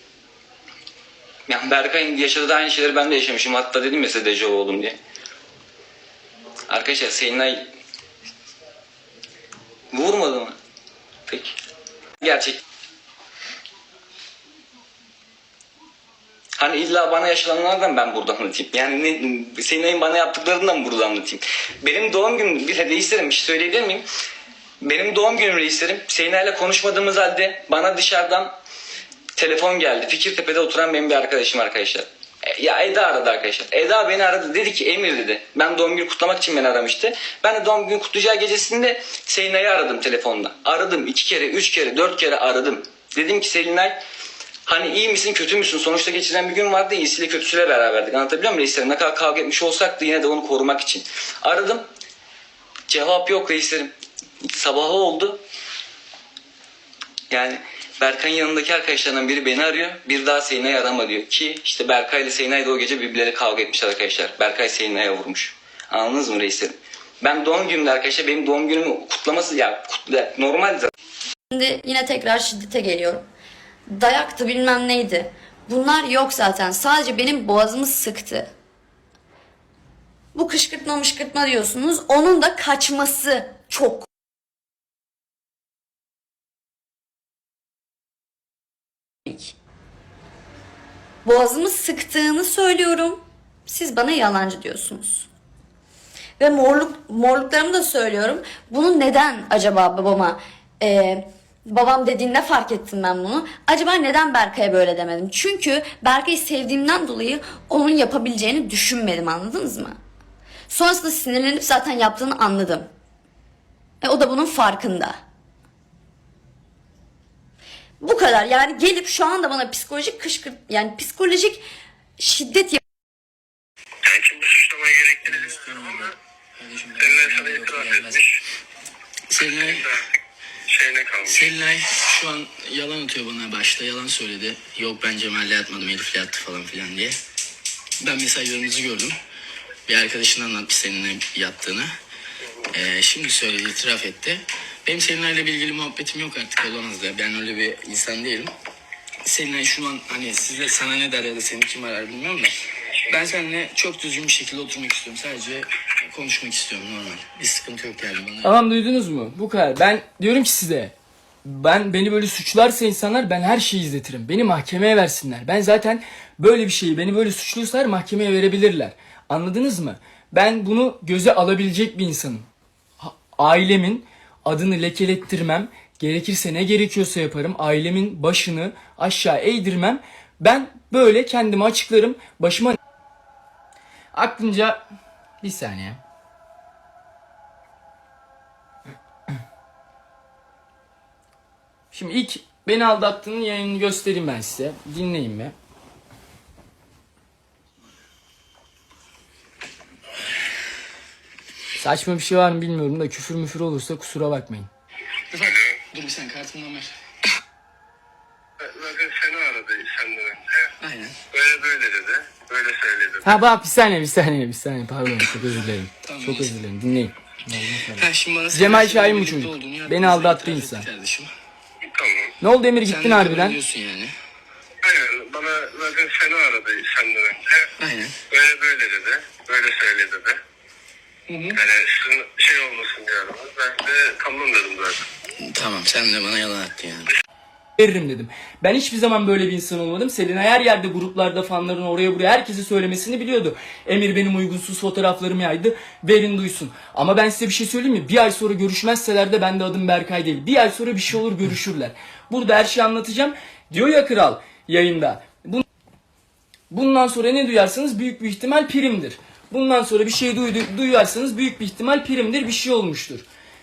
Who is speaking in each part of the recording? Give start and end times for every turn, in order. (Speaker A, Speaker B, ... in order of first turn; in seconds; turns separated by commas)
Speaker A: 1.5-5.0, Speaker A: 6.7-7.7, Speaker A: 9.9-10.6, Speaker A: 11.3-11.6, Speaker A: 12.2-12.6, Speaker A: 16.6-24.1, Speaker A: 24.8-28.6, Speaker A: 29.4-44.0, Speaker A: 44.7-51.9, Speaker A: 52.9-53.9, Speaker A: 54.4-55.4, Speaker A: 57.3-70.9, Speaker B: 71.5-73.3, Speaker B: 73.9-78.5, Speaker B: 80.3-84.1, Speaker B: 89.3-89.5, Speaker B: 91.2-95.3, Speaker B: 96.4-110.0, Speaker B: 110.7-112.9, Speaker B: 114.0-115.2, Speaker B: 118.0-121.6, Speaker B: 122.2-122.8, Speaker C: 124.0-126.2, Speaker D: 125.3-128.2, Speaker C: 127.0-128.4, Speaker D: 129.3-129.9, Speaker C: 129.5-130.0, Speaker C: 130.7-131.6, Speaker D: 131.3-137.2, Speaker D: 138.0-139.2, Speaker D: 139.9-141.9, Speaker D: 142.7-148.5, Speaker D: 149.2-152.6, Speaker D: 153.1-158.5, Speaker E: 158.4-160.9, Speaker E: 161.4-172.5, Speaker E: 173.0-182.8, Speaker E: 184.1-184.8, Speaker E: 185.4-186.0, Speaker E: 191.9-195.5, Speaker E: 201.8-204.7, Speaker D: 205.3-206.9, Speaker C: 205.4-205.8, Speaker C: 208.6-210.6, Speaker D: 210.8-211.2, Speaker C: 211.3-213.4, Speaker E: 213.2-217.1, Speaker D: 216.0-216.5, Speaker D: 217.5-221.3, Speaker E: 218.5-220.9, Speaker C: 221.9-222.3, Speaker E: 222.4-223.6, Speaker D: 222.8-224.1, Speaker C: 224.8-227.7, Speaker D: 227.8-228.2, Speaker C: 228.3-230.4, Speaker D: 231.3-231.6, Speaker C: 231.5-235.0, Speaker D: 235.4-237.1, Speaker E: 237.8-255.7, Speaker E: 256.7-263.2